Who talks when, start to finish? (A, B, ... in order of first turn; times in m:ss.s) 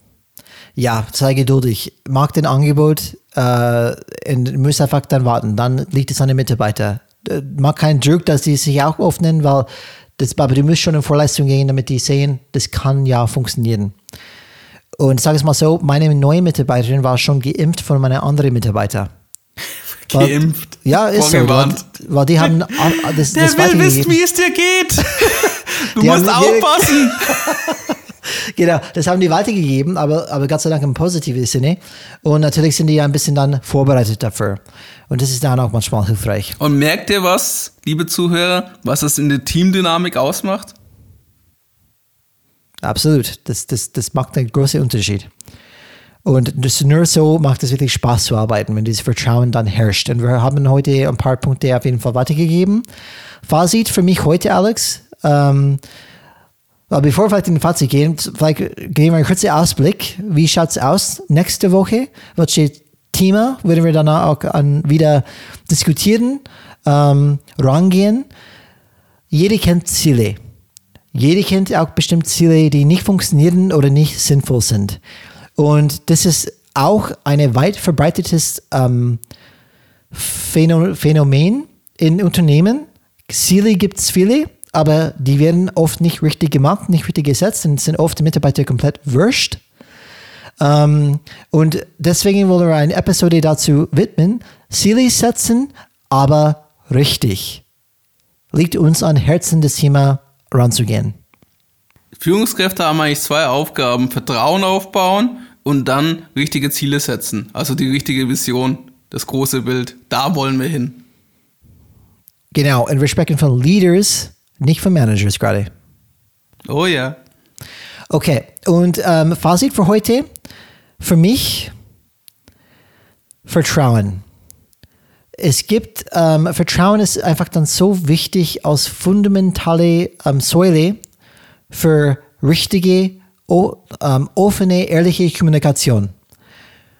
0:00.8-0:14.0 A
0:15.0-0:19.1 A
0:20.1-0:21.9 B
0:20.1-0:24.2 A
0:22.4-0:27.6 B
0:25.2-0:27.9 A
0:28.5-0:36.6 A
0:36.6-0:40.7 B
0:42.8-0:45.3 A
0:46.2-0:52.8 A
0:53.4-0:55.8 A
0:56.9-1:08.3 A
1:09.3-1:10.4 A
1:11.1-1:15.0 A
1:15.6-1:19.2 A
1:20.1-1:29.6 A
1:30.6-1:37.6 A
1:38.5-1:41.2 A
1:42.2-1:51.0 B
1:52.5-1:55.7 A
1:56.7-1:57.2 B
1:58.1-2:00.3 A
2:01.0-2:01.7 A
2:03.4-2:04.2 A
2:05.4-2:11.0 A
2:11.7-2:16.1 A